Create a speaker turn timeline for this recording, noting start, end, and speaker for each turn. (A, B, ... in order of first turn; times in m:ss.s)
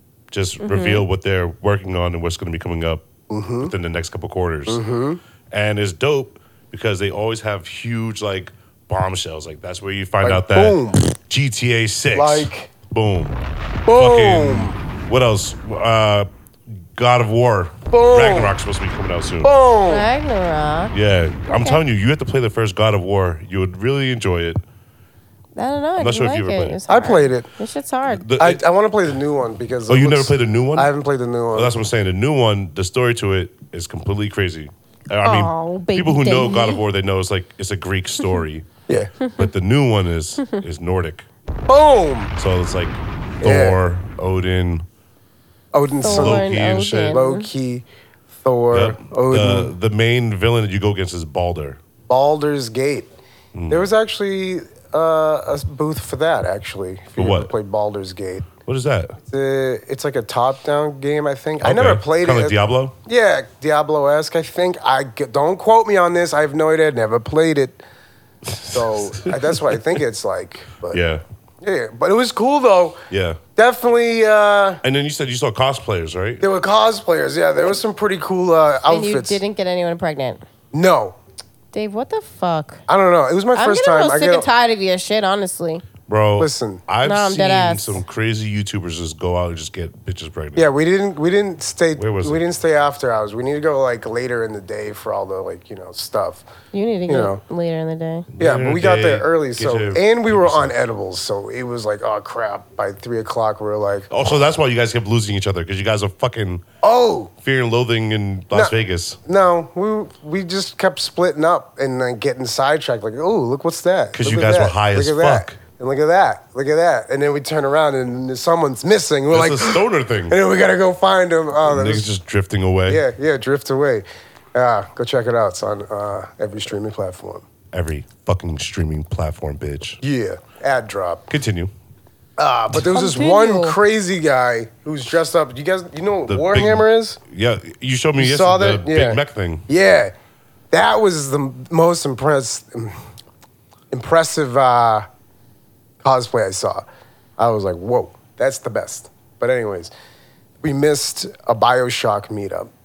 0:00.3-0:03.1 A
0:00.6-0:01.0 B
0:03.3-0:03.7 C
0:03.6-0:04.8 A
0:04.7-0:05.2 C
0:05.5-0:13.4 A
0:10.2-0:11.1 C
0:12.1-0:12.7 C
0:13.9-0:14.8 C
0:13.9-0:19.5 A
0:17.9-0:18.6 C
0:19.4-0:20.1 C
0:19.9-0:20.9 B
0:20.9-0:24.6 A
0:21.5-0:21.8 B
0:25.6-0:28.3 B
0:26.0-0:26.8 A
0:26.9-0:27.5 C
0:28.1-0:28.6 A
0:28.4-0:31.8 C
0:29.9-0:30.9 A
0:31.5-0:38.6 A
0:35.2-0:36.8 B
0:38.9-0:39.1 C
0:39.4-0:41.3 A
0:41.7-0:42.3 C
0:42.4-0:44.9 A
0:43.4-0:43.8 C
0:45.7-0:47.9 C
0:46.0-0:47.5 B
0:46.0-0:47.2 A
0:48.4-0:49.7 C
0:48.7-0:51.8 A
0:52.1-0:53.1 C
0:53.5-0:53.9 A
0:53.7-0:58.5 C
0:57.2-0:57.5 A
0:58.6-0:59.2 A
0:59.2-1:07.8 C
1:01.6-1:03.0 A
1:08.5-1:09.7 A
1:08.7-1:11.0 C
1:10.9-1:11.2 A
1:11.6-1:13.0 C
1:13.1-1:13.4 A
1:13.6-1:14.8 C
1:14.8-1:16.4 A
1:16.4-1:19.4 C
1:18.9-1:20.4 B
1:20.7-1:21.2 C
1:21.7-1:22.8 B
1:22.9-1:24.5 C
1:23.5-1:25.8 B
1:26.1-1:30.7 A
1:26.4-1:26.8 C
1:27.0-1:28.0 B
1:30.6-1:36.5 C
1:32.0-1:32.4 A
1:36.7-1:38.3 B
1:37.1-1:37.4 C
1:38.4-1:40.8 A
1:38.4-1:44.1 C
1:44.1-1:46.6 A
1:46.8-1:47.3 C
1:47.4-1:49.2 A
1:49.2-2:02.1 C
1:54.1-1:55.6 A
1:59.3-2:00.4 A
2:01.6-2:03.0 A
2:02.9-2:07.4 C
2:07.7-2:10.0 A
2:10.0-2:11.2 C
2:11.3-2:11.7 A
2:12.4-2:17.2 C
2:12.8-2:13.8 B
2:16.3-2:19.7 A
2:18.2-2:20.1 C
2:20.7-2:23.0 C
2:23.9-2:25.1 C
2:26.0-2:26.9 C
2:27.4-2:29.9 C
2:30.6-2:32.7 C